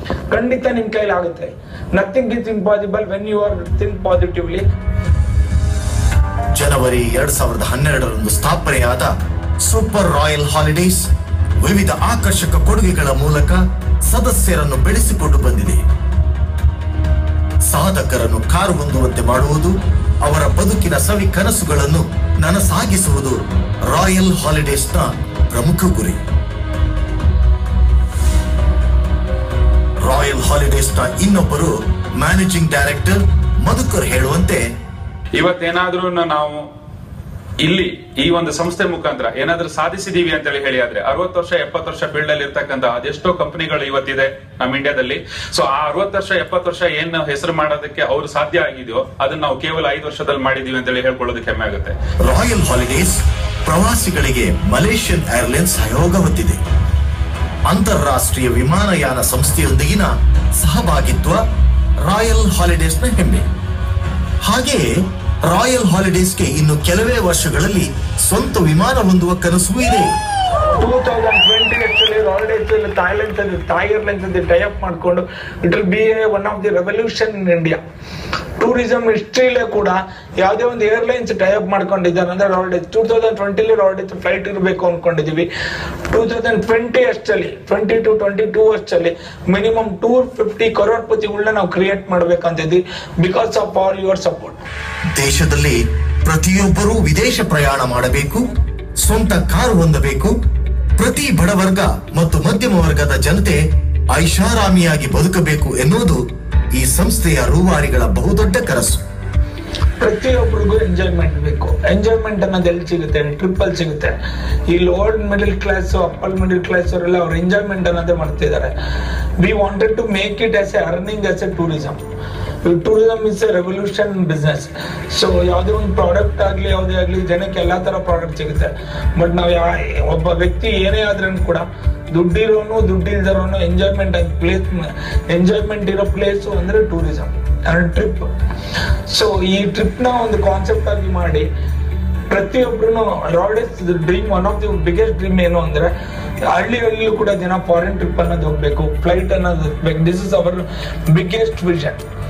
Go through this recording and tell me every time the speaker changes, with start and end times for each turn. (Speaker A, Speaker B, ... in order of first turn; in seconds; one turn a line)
Speaker A: 0.3-4.6
Speaker B: 6.5-9.1
Speaker B: 9.6-11.1
Speaker B: 11.6-15.8
Speaker B: 17.7-26.2
Speaker B: 30.0-34.6
Speaker C: 35.4-36.7
Speaker C: 37.6-52.0
Speaker B: 52.3-56.6
Speaker B: 57.7-61.4
Speaker B: 62.0-63.5
Speaker B: 64.5-64.8
Speaker B: 65.5-70.1
Speaker A: 70.8-77.8
Speaker A: 78.6-85.5
Speaker A: 86.1-94.7
Speaker B: 95.1-98.5
Speaker B: 99.0-100.3
Speaker B: 101.0-103.6
Speaker B: 104.1-106.2
Speaker B: 106.8-109.0
Speaker A: 110.0-114.2
Speaker A: 114.7-118.7
Speaker A: 119.4-122.0
Speaker A: 122.7-138.3
Speaker A: 139.1-141.5
Speaker A: 142.3-145.9
Speaker A: 146.5-152.0